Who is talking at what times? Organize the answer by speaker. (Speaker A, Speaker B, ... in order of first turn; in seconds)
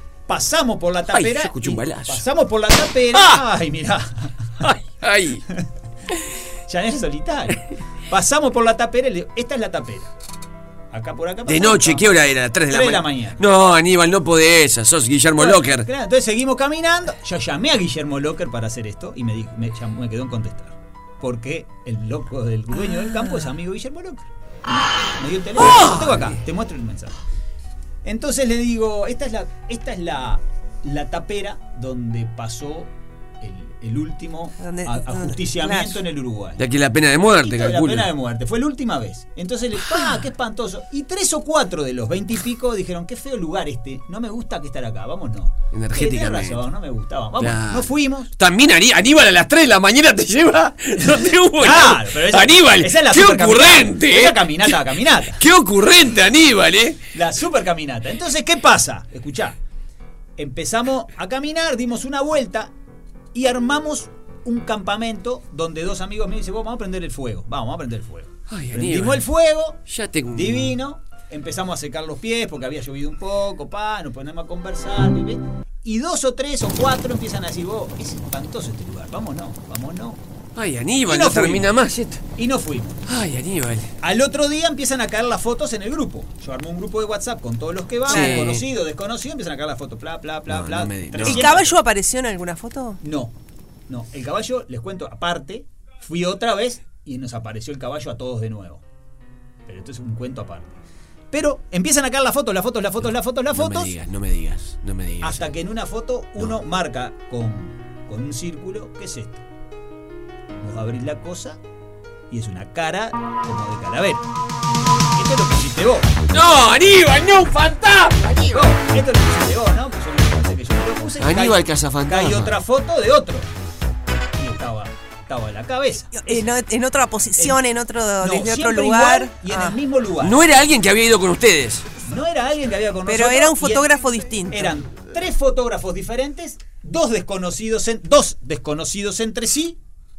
Speaker A: 0.3-4.7, 6.7-10.1, 10.9-13.4, 15.4-24.3, 25.1-27.1, 28.0-36.6, 37.3-48.3, 51.0-55.4, 57.1-59.6, 60.4-62.7, 63.3-80.2, 81.0-81.7, 82.3-83.0, 84.0-91.8, 93.0-93.3, 93.9-98.8, 99.7-104.0, 105.2-109.4, 110.6-111.6, 112.3-114.2, 115.1-116.1, 118.4-123.5, 124.4-126.5, 127.3-127.6, 128.2-130.4, 132.0-133.9, 134.5-139.8
Speaker B: 1.1-2.2, 3.1-3.4, 4.6-5.4, 11.5-15.9, 25.6-26.3, 36.6-38.1, 45.7-46.6, 47.4-54.8, 55.4-57.0, 68.5-69.2, 69.8-70.7, 80.5-82.2, 83.0-83.9, 88.1-88.6, 90.5-91.5, 103.5-105.5, 116.3-118.5, 121.2-122.6, 130.2-131.8
Speaker C: 34.6-36.0, 88.1-88.6, 91.2-93.0, 126.1-129.8, 133.0-134.7